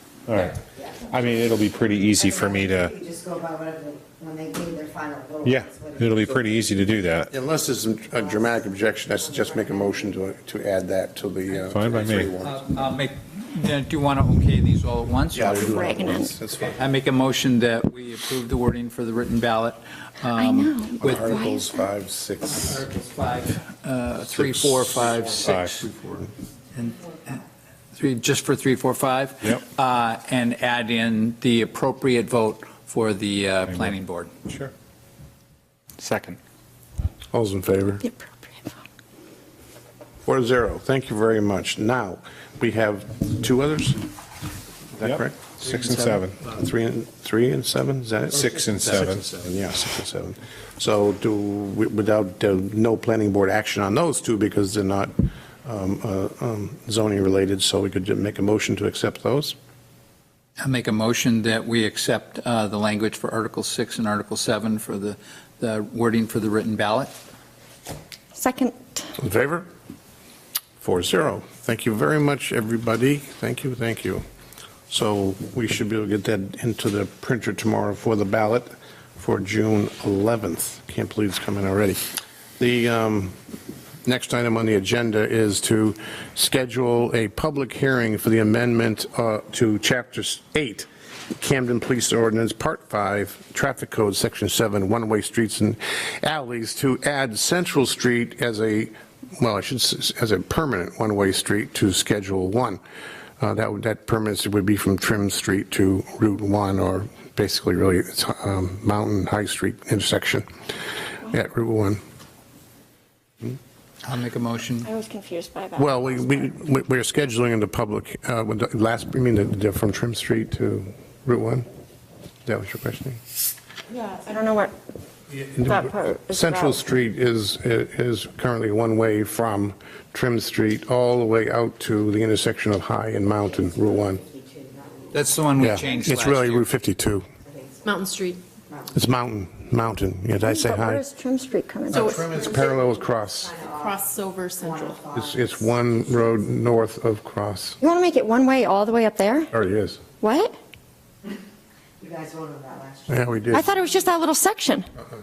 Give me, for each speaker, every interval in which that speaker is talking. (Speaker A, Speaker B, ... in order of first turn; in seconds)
Speaker A: 0.3-3.0, 5.4-7.3, 11.7-12.3, 25.4-25.8, 34.5-34.7, 36.0-36.4, 45.0-46.4, 48.3-49.3
Speaker B: 2.2-6.4, 8.2-8.4, 9.2-9.9, 133.9-135.8, 137.5-138.0, 142.2-145.9, 152.0-154.0
Speaker C: 7.3-12.9, 15.3-16.8, 21.0-22.8, 24.3-25.4, 37.3-38.0, 40.3-44.0, 45.0-59.6, 69.2-69.7, 70.8-74.2, 74.9-82.0, 82.6-83.4, 84.0-102.8, 103.4-110.5, 111.2-112.0, 115.8-121.7, 122.5-123.2, 125.3-134.2, 135.6-137.2, 138.9-141.0, 141.9-143.5, 145.1-147.8, 149.5-150.0, 153.1-153.7
Speaker D: 12.4-15.7, 16.5-21.2, 22.4-27.4, 27.9-34.3, 48.5-49.4, 60.6-67.1, 114.0-114.9, 135.1-136.7
Speaker E: 15.6-16.3, 20.3-21.8, 38.0-38.7, 68.3-69.1, 114.8-116.5, 123.9-124.7, 125.7-126.8, 140.4-142.2, 147.8-149.5, 150.2-150.6, 153.5-154.9
Speaker F: 137.8-138.4, 141.9-142.7, 143.7-145.0